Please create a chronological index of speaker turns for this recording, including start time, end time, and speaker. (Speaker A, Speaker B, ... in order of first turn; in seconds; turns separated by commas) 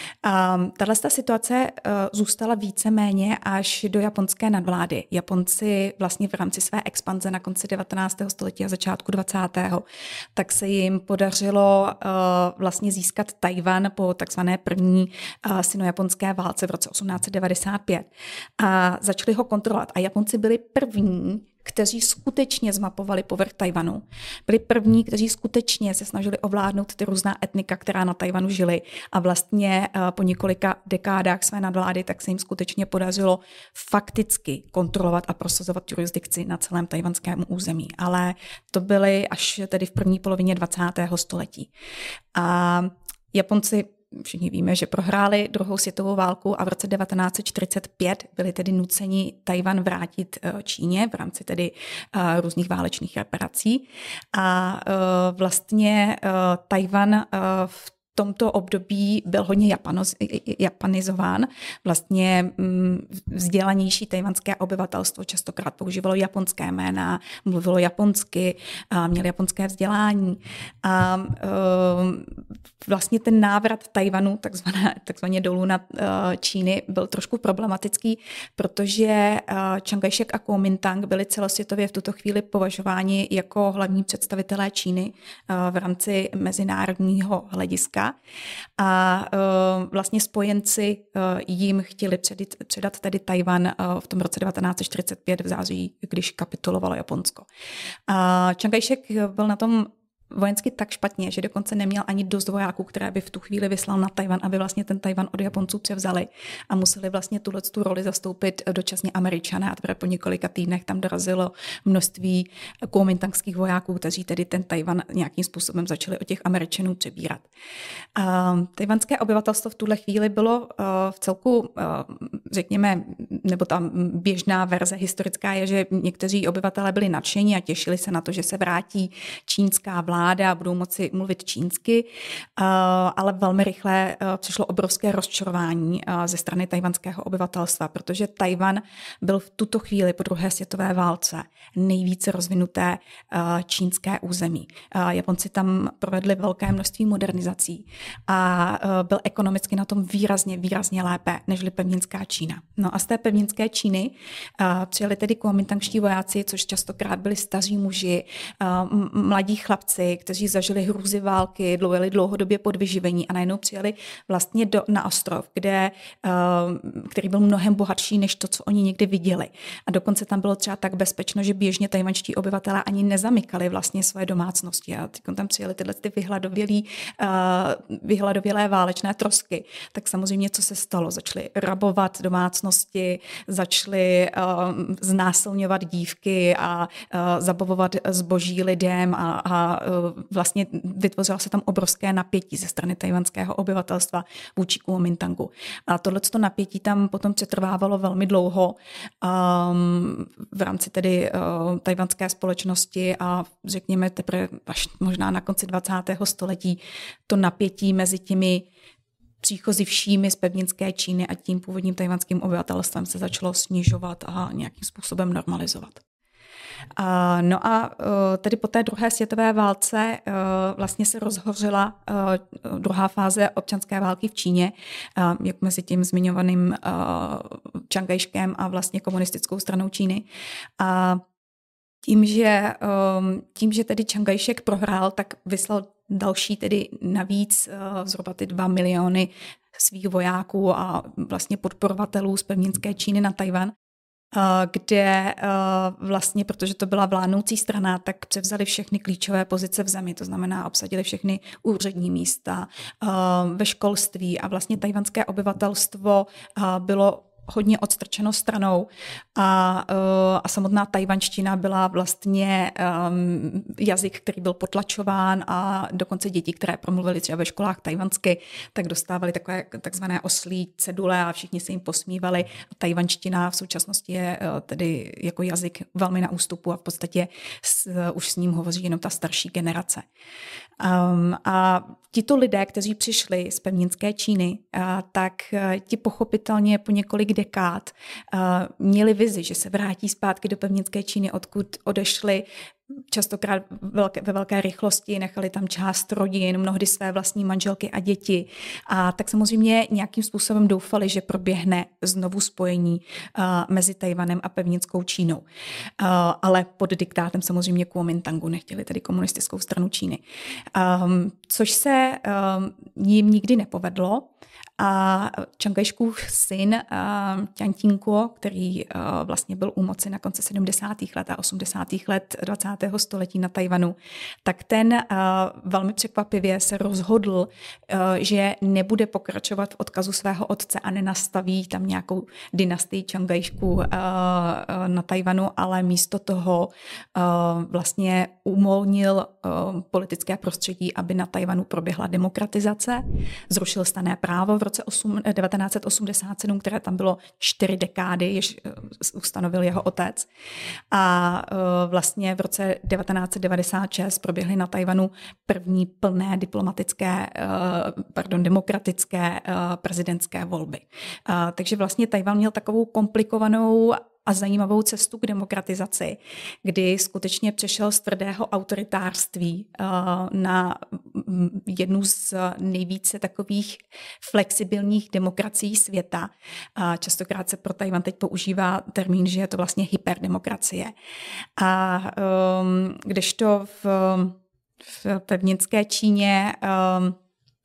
Speaker A: 0.2-9.8, Speaker A: 10.3-41.7, Speaker A: 42.3-72.3, Speaker A: 72.8-88.1, Speaker A: 88.8-97.5, Speaker A: 98.1-117.4, Speaker A: 118.2-132.1, Speaker A: 132.6-208.7, Speaker A: 209.4-216.0, Speaker A: 217.0-230.2, Speaker A: 230.8-231.2, Speaker A: 232.1-243.7, Speaker A: 244.3-280.0, Speaker A: 280.8-292.4, Speaker A: 293.1-305.4, Speaker A: 306.0-310.2, Speaker A: 310.7-314.3, Speaker A: 314.8-350.3, Speaker A: 350.9-380.9, Speaker A: 381.6-384.4, Speaker A: 384.9-387.2